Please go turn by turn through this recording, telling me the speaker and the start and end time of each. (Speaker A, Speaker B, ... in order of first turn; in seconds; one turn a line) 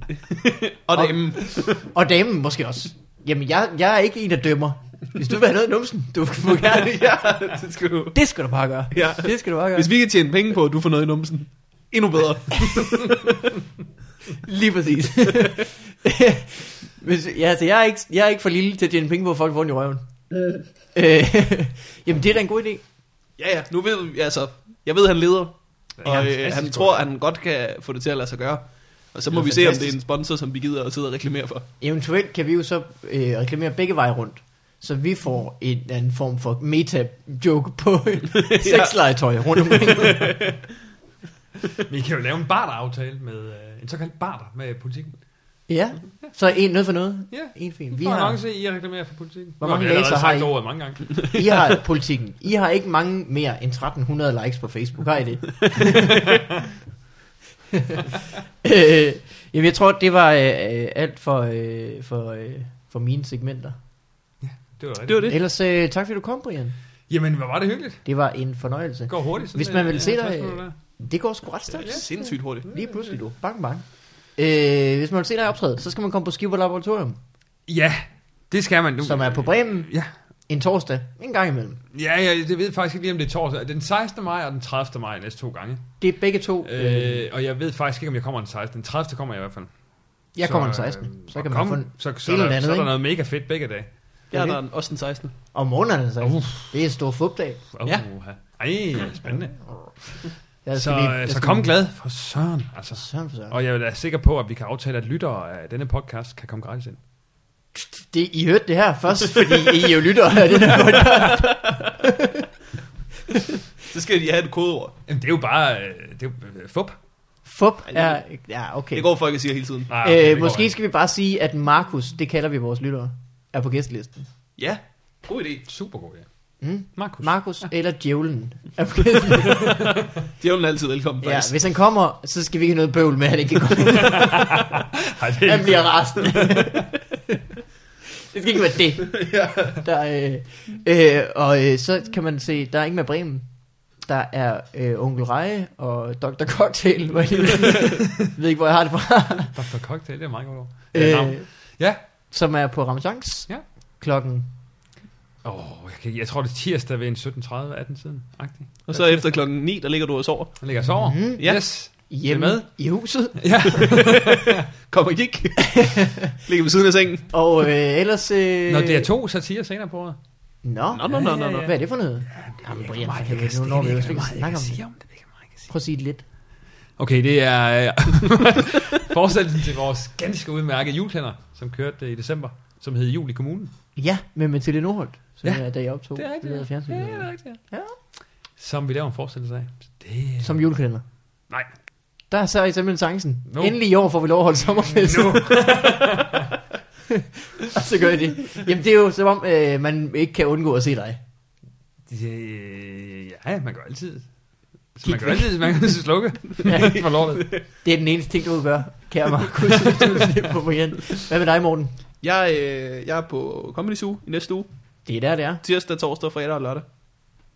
Speaker A: 0.3-1.8
Speaker B: 0.9-7.1
Speaker A: 6.6-8.2
Speaker B: 8.1-9.9
Speaker A: 8.9-13.5
Speaker B: 12.6-13.0
Speaker B: 14.3-20.0
Speaker B: 20.9-22.8
Speaker A: 23.4-31.6
Speaker C: 26.0-27.1
Speaker B: 29.3-30.0
Speaker B: 31.8-40.4
Speaker A: 38.3-39.0
Speaker A: 39.5-40.6
Speaker C: 41.8-45.2
Speaker B: 45.7-48.4
Speaker C: 47.3-51.2
Speaker B: 49.6-50.5
Speaker B: 51.2-56.4
Speaker B: 57.7-58.1
Speaker B: 58.6-63.8
Speaker C: 64.4-65.4
Speaker A: 65.1-65.4
Speaker B: 65.3-66.7
Speaker C: 67.1-68.0
Speaker B: 68.0-73.8
Speaker C: 69.1-70.7
Speaker C: 71.8-72.1
Speaker A: 71.8-72.7
Speaker C: 72.6-72.9
Speaker B: 74.4-77.2
Speaker C: 77.7-80.1
Speaker B: 79.0-79.9
Speaker B: 80.5-81.8
Speaker C: 81.9-85.9
Speaker B: 86.0-87.2
Speaker C: 86.6-89.7
Speaker B: 90.3-92.9
Speaker C: 90.4-93.9
Speaker A: 94.3-95.3
Speaker B: 94.3-94.6
Speaker B: 95.5-97.6
Speaker C: 96.2-96.7
Speaker C: 97.7-99.7
Speaker B: 100.6-101.7
Speaker C: 100.8-107.0
Speaker B: 102.9-103.5
Speaker B: 107.7-112.5
Speaker A: 110.8-111.9
Speaker A: 113.8-115.0
Speaker C: 115.1-117.0
Speaker B: 117.4-119.0
Speaker A: 117.9-118.2
Speaker A: 118.9-119.9
Speaker C: 119.9-120.7
Speaker B: 120.0-124.3
Speaker A: 124.6-125.6
Speaker C: 125.7-126.2
Speaker B: 126.6-130.0
Speaker C: 127.0-127.3
Speaker C: 129.4-129.8
Speaker A: 130.4-131.5
Speaker B: 131.2-134.8
Speaker C: 133.9-136.8
Speaker B: 135.4-137.4
Speaker B: 138.2-143.4
Speaker A: 139.1-139.8
Speaker B: 144.0-149.5
Speaker C: 149.5-152.0
Speaker B: 150.9-151.4
Speaker B: 152.3-153.5
Speaker B: 154.0-154.5
Speaker C: 155.4-159.2
Speaker A: 158.9-160.6
Speaker C: 160.6-162.6
Speaker B: 161.0-163.9
Speaker C: 163.3-164.7
Speaker A: 163.8-167.3
Speaker B: 165.6-166.3
Speaker B: 167.3-169.1
Speaker C: 168.7-170.2
Speaker B: 170.6-174.8
Speaker A: 170.9-171.7
Speaker C: 171.1-171.7
Speaker C: 172.3-175.7
Speaker B: 175.7-176.2
Speaker C: 177.0-183.7
Speaker B: 183.9-187.9
Speaker C: 185.4-187.6
Speaker C: 188.6-190.6
Speaker B: 190.4-191.0
Speaker B: 192.3-196.4
Speaker C: 193.5-193.8
Speaker C: 194.7-196.5
Speaker B: 197.1-201.2
Speaker C: 202.1-204.3
Speaker C: 204.9-207.5
Speaker B: 205.0-205.5
Speaker B: 206.6-211.9
Speaker A: 206.7-207.6
Speaker A: 212.2-214.7
Speaker B: 215.1-215.6
Speaker A: 215.6-216.8